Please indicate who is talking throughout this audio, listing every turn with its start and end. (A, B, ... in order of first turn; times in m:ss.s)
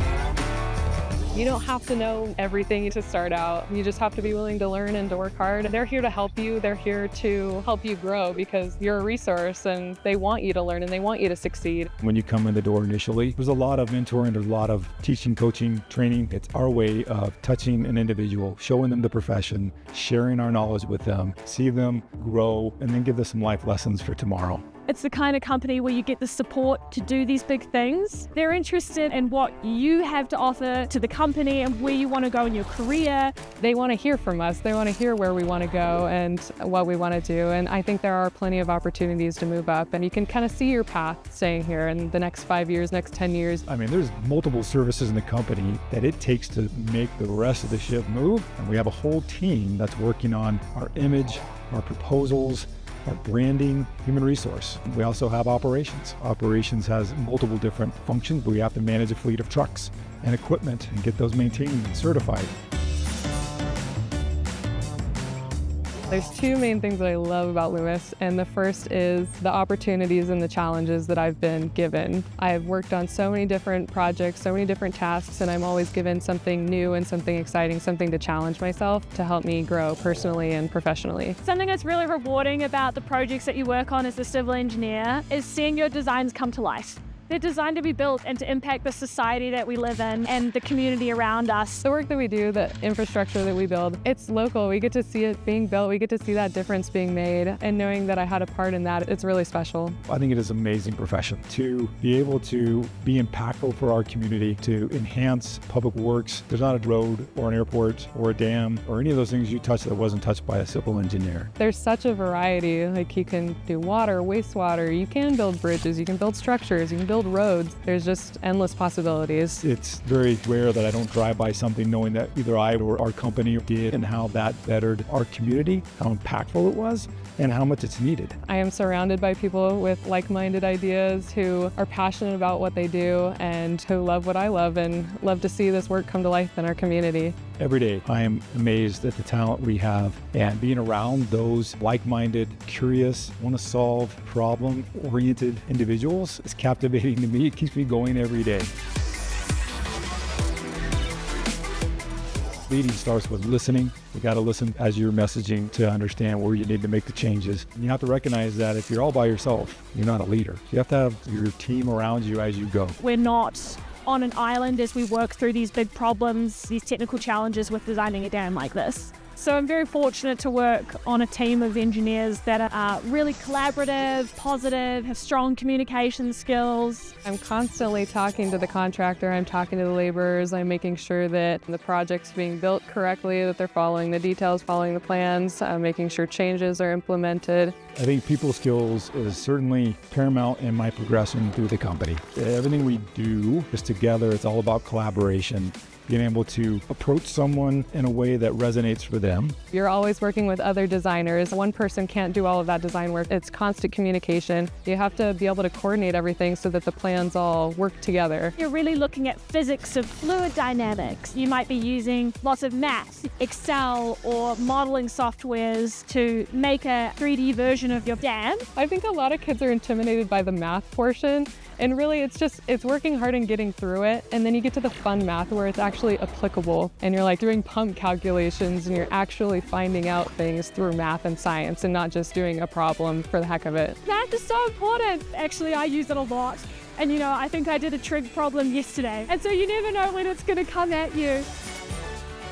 0:01.3-0:11.9 A
0:12.0-0:24.6 B
0:24.9-0:33.4 C
0:33.6-0:43.6 A
0:43.7-1:02.5 B
1:06.1-1:21.4 A
1:21.4-1:31.8 C
1:31.8-1:40.0 A
1:40.1-1:51.5 B
1:51.6-1:59.6 A
1:59.6-2:08.4 B
2:08.5-2:17.4 A
2:17.6-2:28.7 B
2:32.7-2:43.0 B
2:43.0-2:57.2 C
2:57.2-3:07.8 A
3:08.0-3:19.6 B
3:19.7-3:28.5 A
3:28.6-3:38.6 C
3:38.8-3:54.0 A
3:54.1-4:01.5 C